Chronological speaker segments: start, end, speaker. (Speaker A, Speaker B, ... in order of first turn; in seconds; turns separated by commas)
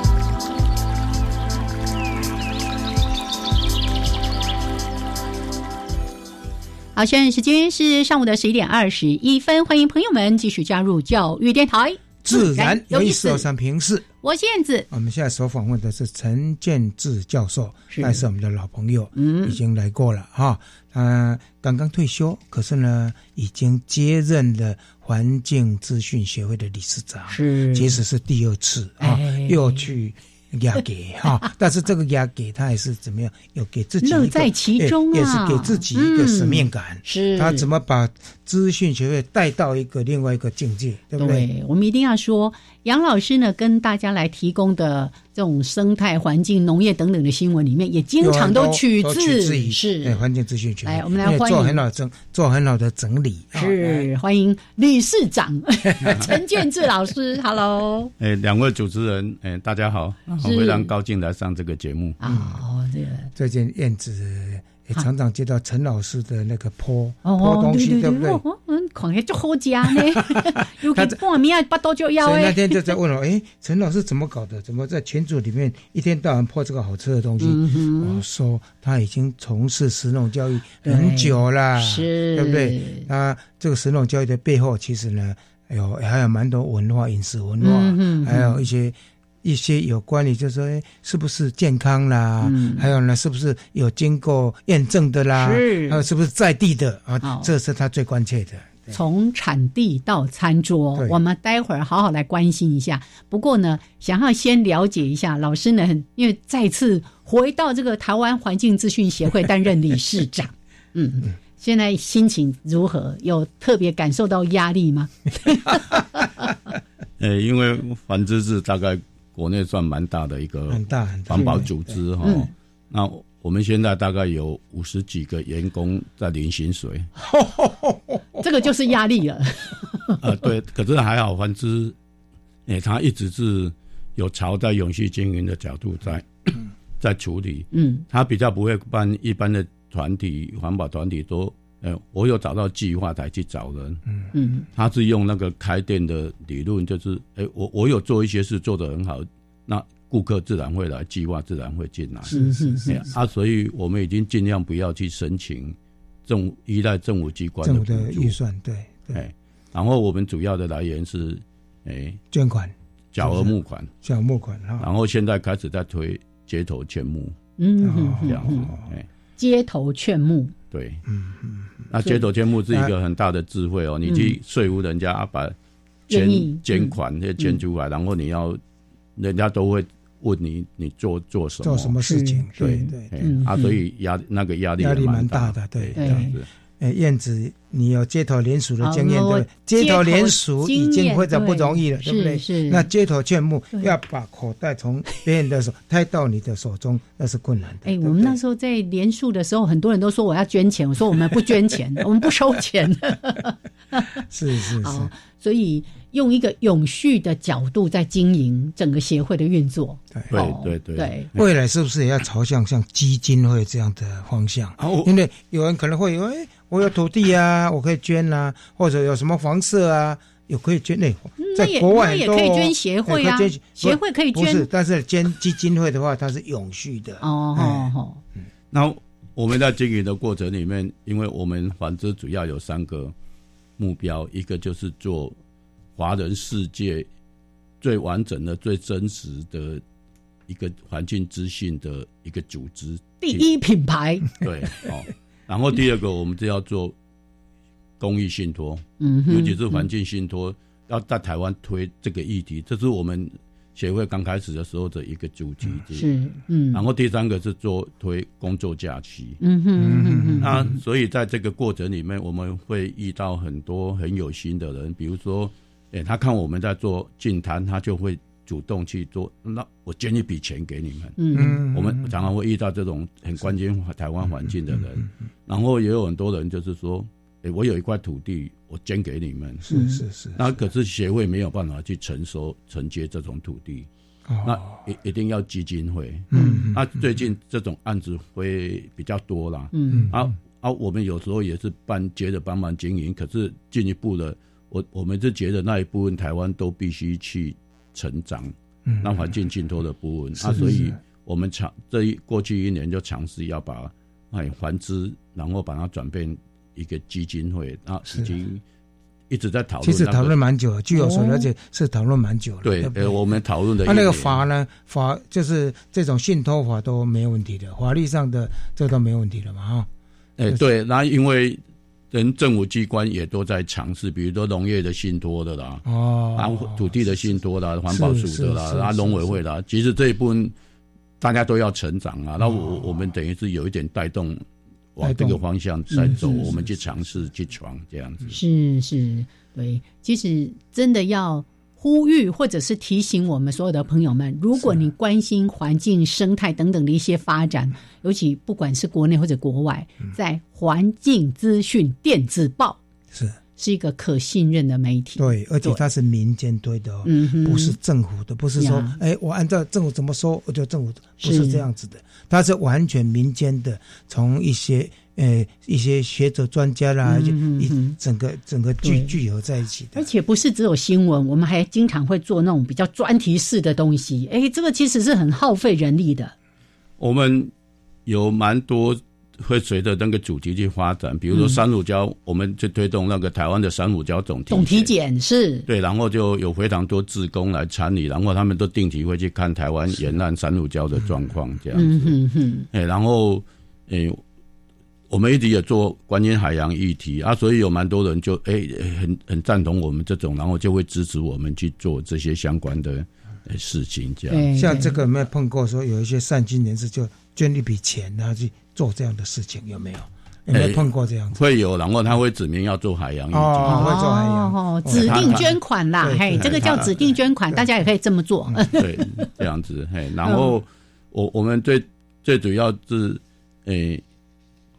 Speaker A: 7.0-13.4, Speaker B: 12.2-14.1, Speaker A: 14.2-14.9, Speaker B: 14.9-41.5, Speaker A: 17.9-18.2, Speaker A: 19.1-19.6, Speaker A: 27.3-28.0, Speaker A: 29.0-29.8, Speaker A: 34.0-37.7, Speaker A: 41.2-50.2, Speaker B: 48.2-54.1, Speaker A: 50.8-51.8, Speaker A: 53.5-58.1, Speaker B: 56.0-56.3, Speaker C: 58.2-62.2, Speaker A: 60.4-60.9, Speaker A: 62.2-63.3, Speaker B: 62.2-62.6, Speaker B: 63.3-68.4, Speaker A: 67.2-72.9, Speaker B: 70.4-71.2, Speaker B: 72.2-99.0, Speaker A: 77.4-78.2, Speaker A: 80.8-83.0, Speaker A: 87.6-88.6, Speaker A: 92.4-92.9, Speaker A: 95.3-96.0, Speaker A: 97.2-97.5, Speaker A: 98.9-116.2, Speaker C: 117.2-127.1, Speaker B: 120.7-122.0, Speaker A: 121.3-121.6, Speaker A: 122.2-122.5, Speaker B: 127.2-128.4, Speaker A: 128.4-130.2, Speaker C: 130.2-131.9, Speaker C: 132.7-144.0, Speaker A: 137.7-138.0, Speaker A: 144.3-144.7, Speaker C: 144.7-152.3, Speaker B: 152.3-153.0, Speaker A: 152.3-153.1, Speaker C: 152.9-158.3, Speaker B: 157.6-159.2, Speaker C: 159.1-162.2, Speaker B: 162.3-164.9, Speaker C: 163.1-163.9, Speaker C: 164.8-167.3, Speaker A: 167.6-168.7, Speaker B: 167.8-168.9, Speaker C: 168.2-169.1, Speaker A: 169.4-170.5, Speaker C: 170.7-171.0, Speaker B: 171.1-171.9, Speaker C: 171.9-175.5, Speaker A: 174.1-174.3, Speaker C: 176.1-178.6, Speaker A: 176.1-177.6, Speaker C: 179.2-181.9, Speaker B: 181.6-183.1, Speaker A: 182.0-183.8, Speaker C: 182.6-186.4, Speaker B: 184.8-186.3, Speaker A: 185.9-186.3, Speaker B: 186.8-198.4, Speaker A: 188.8-192.9, Speaker A: 197.8-204.2, Speaker B: 204.3-205.1, Speaker A: 204.8-211.3, Speaker C: 210.3-211.4, Speaker B: 211.3-227.9, Speaker C: 214.8-215.1, Speaker A: 221.4-224.7, Speaker A: 227.2-228.2, Speaker C: 228.7-233.1, Speaker C: 233.8-235.3, Speaker C: 235.9-237.1, Speaker C: 237.8-239.8, Speaker C: 240.5-243.4, Speaker A: 243.2-244.3, Speaker C: 244.4-246.9, Speaker C: 248.0-256.1, Speaker A: 249.0-249.8, Speaker A: 255.9-256.8, Speaker C: 256.7-259.4, Speaker A: 259.4-260.5, Speaker B: 259.8-260.7, Speaker C: 260.4-271.2, Speaker A: 271.2-271.6, Speaker B: 271.3-272.1, Speaker C: 271.7-279.6, Speaker B: 279.6-280.6, Speaker A: 279.7-280.0, Speaker C: 280.3-283.9, Speaker B: 284.3-284.8, Speaker C: 284.4-308.6, Speaker B: 286.3-286.8, Speaker A: 286.3-286.7, Speaker A: 289.7-290.1, Speaker B: 289.9-290.3, Speaker B: 298.9-299.3, Speaker B: 300.4-301.0, Speaker A: 300.6-300.8, Speaker C: 309.3-310.3, Speaker B: 309.8-319.9, Speaker A: 310.9-311.5, Speaker C: 312.6-314.4, Speaker C: 320.4-321.6, Speaker C: 322.1-330.5, Speaker B: 325.8-327.1, Speaker B: 327.9-329.4, Speaker C: 331.2-334.4, Speaker B: 332.4-332.7, Speaker C: 334.9-338.4, Speaker B: 335.0-335.4, Speaker A: 335.9-336.5, Speaker B: 336.1-336.7, Speaker A: 338.3-352.8, Speaker B: 353.1-353.4, Speaker A: 353.6-355.8, Speaker B: 355.2-370.1, Speaker A: 357.0-357.8, Speaker A: 358.6-359.0, Speaker A: 361.2-361.6, Speaker A: 367.0-367.9, Speaker A: 368.8-369.2, Speaker A: 369.9-376.3, Speaker C: 377.0-377.5, Speaker C: 378.1-384.9, Speaker A: 381.3-381.6, Speaker A: 384.5-385.6, Speaker C: 385.7-392.1, Speaker A: 391.7-392.7, Speaker C: 392.7-394.2, Speaker C: 395.1-404.4, Speaker A: 404.3-405.0, Speaker B: 404.6-411.4, Speaker C: 410.5-413.9, Speaker B: 413.3-417.7, Speaker A: 413.6-418.8, Speaker C: 414.9-415.6, Speaker C: 416.4-416.9, Speaker C: 418.7-424.0